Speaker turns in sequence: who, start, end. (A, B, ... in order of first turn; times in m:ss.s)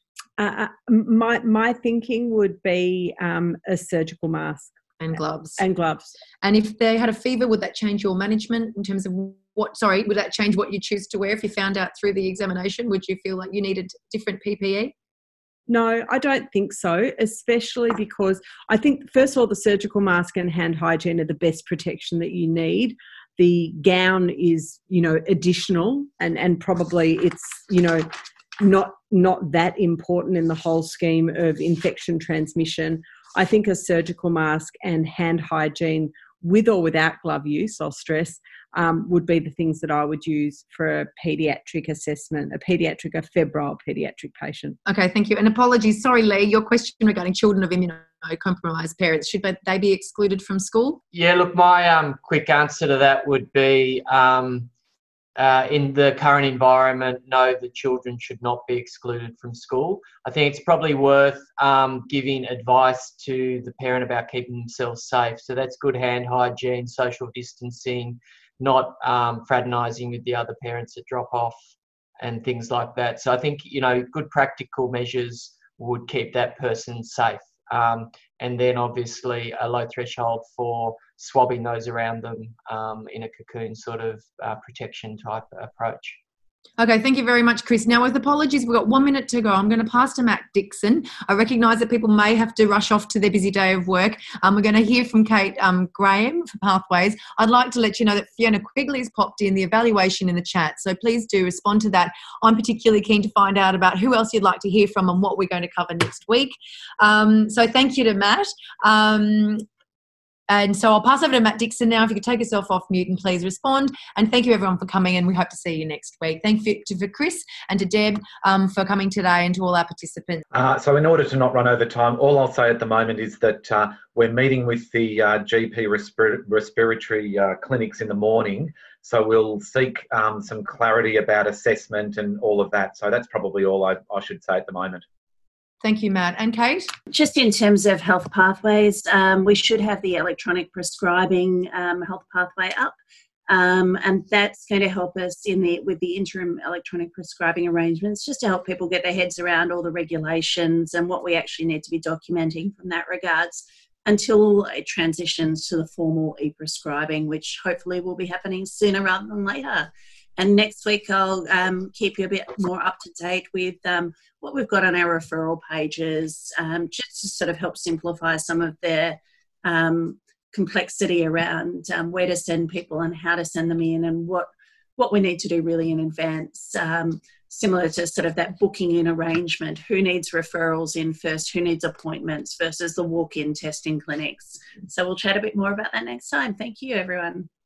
0:00.4-0:04.8 A
0:05.0-0:05.6 B
0:05.6-0:06.1 A
0:06.4-0:14.9 B
0:15.7-0:28.1 A
0:28.6-0:44.8 A
0:44.9-0:51.0 B
0:51.1-0:54.7 C
0:55.4-1:11.6 C
1:12.2-1:26.2 C
1:26.8-1:49.6 B
1:50.5-2:00.4 B
2:00.5-2:15.0 D
2:15.8-2:16.9 B
2:17.1-2:23.0 E
2:23.5-3:07.5 E